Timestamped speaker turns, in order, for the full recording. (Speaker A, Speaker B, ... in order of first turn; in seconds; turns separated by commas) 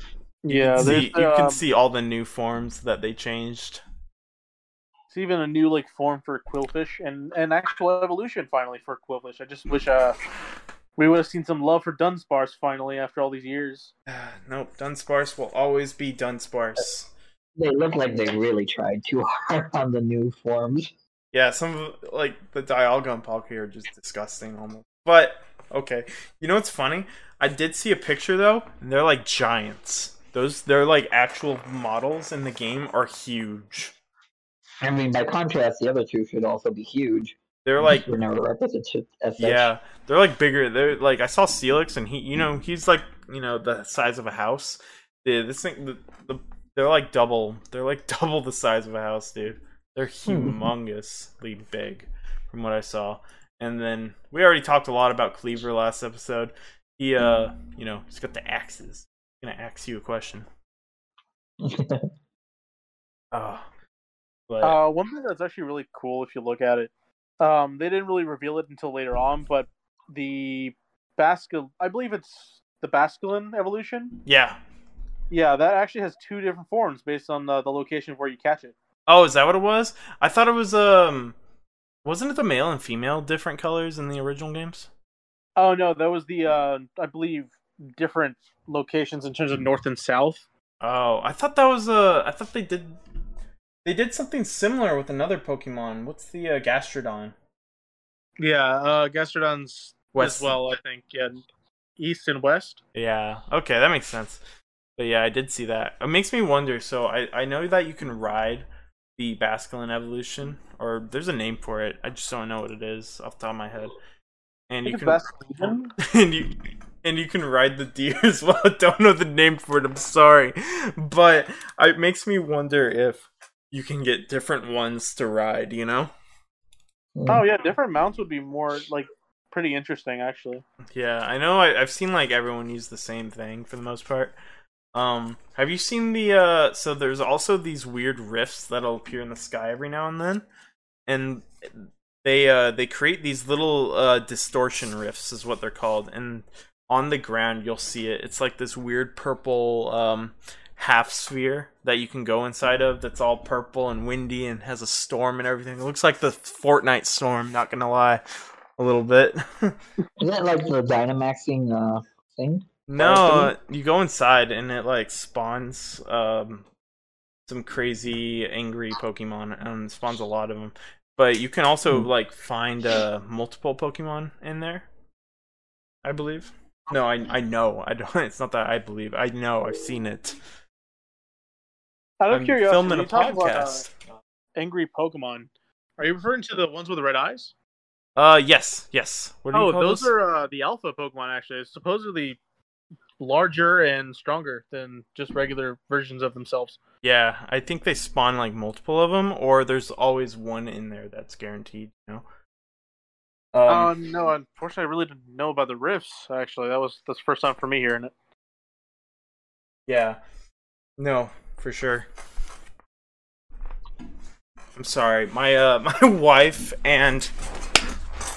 Speaker A: 0.4-1.6, Speaker B: 0.5-3.8, Speaker A: 5.1-10.2, Speaker A: 11.0-13.9, Speaker B: 14.1-17.1, Speaker C: 17.6-20.9, Speaker B: 21.3-33.9, Speaker C: 34.8-39.7, Speaker B: 37.6-38.1, Speaker B: 39.4-60.5, Speaker C: 50.3-50.7, Speaker C: 61.6-62.1, Speaker B: 63.3-63.7, Speaker B: 64.5-64.8, Speaker A: 64.6-74.2, Speaker B: 74.2-74.6, Speaker A: 75.3-78.8, Speaker B: 79.1-81.3, Speaker B: 82.0-84.9, Speaker A: 85.6-90.4, Speaker B: 90.8-93.0, Speaker B: 93.8-97.3, Speaker A: 98.4-101.5, Speaker B: 100.1-100.5, Speaker A: 102.0-102.8, Speaker B: 102.9-104.4, Speaker B: 105.0-114.0, Speaker B: 114.7-126.1, Speaker A: 114.8-115.9, Speaker C: 127.2-127.4, Speaker A: 127.3-130.6, Speaker B: 130.9-134.4, Speaker B: 134.9-140.5, Speaker B: 141.1-158.2, Speaker B: 158.8-159.8, Speaker C: 160.2-163.5, Speaker B: 162.9-166.7, Speaker B: 167.5-174.9, Speaker B: 176.0-180.4, Speaker A: 182.2-183.9, Speaker B: 182.3-183.9, Speaker A: 184.6-187.5, Speaker B: 188.2-190.1, Speaker A: 189.5-192.4, Speaker A: 193.2-196.8, Speaker B: 197.0-202.2, Speaker B: 203.5-203.9, Speaker A: 203.7-208.1, Speaker B: 209.9-210.2, Speaker B: 211.0-212.1, Speaker B: 214.8-217.3